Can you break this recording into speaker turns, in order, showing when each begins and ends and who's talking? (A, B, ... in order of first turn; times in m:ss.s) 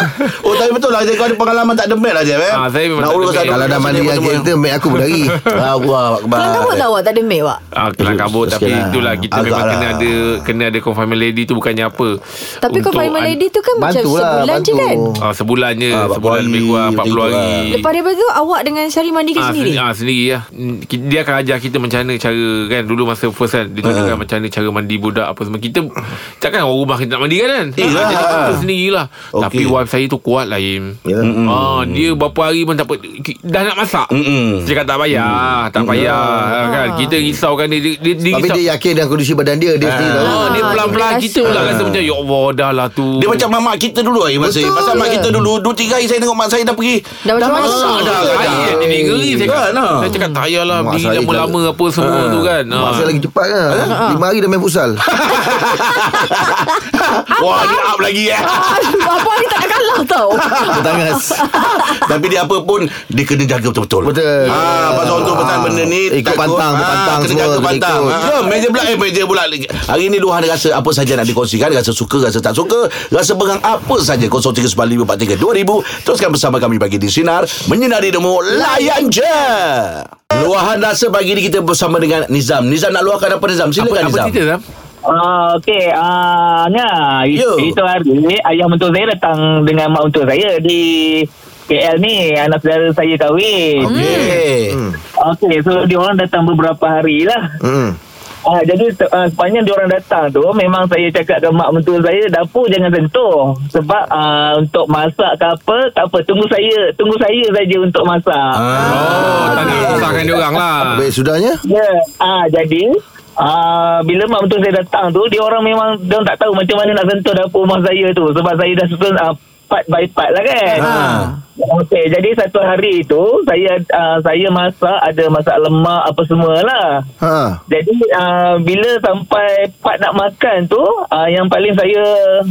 0:00.1-0:04.5 A
0:02.5-0:04.1 B
0:03.4-0:05.5 C
0:05.0-0:05.6 B
0:05.5-0:06.9 A
0:06.4-0:07.6 D
0:07.8-0:13.4 B
0:08.0-0:08.4 A
0:08.4-0:09.3 C
0:09.3-0:10.4 A
0:12.6-0:15.1 D
0:13.8-0:15.2 C
0:15.2-0:17.8 B
0:15.9-0:17.8 A
0:17.7-0:19.8 D
0:19.4-0:34.1 B
0:23.8-0:24.2 A
0:27.8-0:28.6 A
0:29.4-0:29.8 A
0:31.1-0:32.2 A
0:34.1-0:36.3 A
0:34.6-0:38.6 B
0:36.6-0:37.2 D
0:38.3-0:40.7 C
0:39.8-0:42.1 A
0:40.2-0:43.5 B
0:40.2-0:41.8 D
0:43.2-0:50.1 A
0:44.4-0:45.5 C
0:47.2-0:48.4 D
0:47.6-0:53.2 B
0:48.0-0:49.6 C
0:50.1-0:50.4 D
0:50.7-0:51.6 C
0:52.0-0:52.6 A
0:52.7-0:55.0 C
0:53.7-0:54.0 A
0:53.9-0:54.2 D
0:55.2-0:59.3 A
0:57.4-1:02.0 D
1:00.4-1:00.8 A
1:00.7-1:01.4 C
1:01.6-1:24.4 A
1:04.0-1:08.4 C
1:04.4-1:05.3 D
1:08.5-1:08.8 D
1:18.5-1:19.1 D
1:23.8-1:24.6 B
1:25.1-1:34.2 E
1:27.3-1:27.8 A
1:33.8-1:34.8 A
1:33.9-1:35.0 C
1:33.9-1:34.4 D
1:35.2-1:37.4 E
1:37.6-1:38.0 C
1:38.5-1:48.5 E
1:48.6-1:50.2 A
1:48.8-1:49.9 D
1:48.9-1:51.1 B
1:49.6-1:51.6 C
1:51.7-2:00.8 E
2:00.7-2:01.4 D
2:00.8-2:01.3 A
2:00.8-2:01.3 C
2:01.6-2:06.8 E
2:07.2-2:07.6 C
2:07.7-2:12.1 E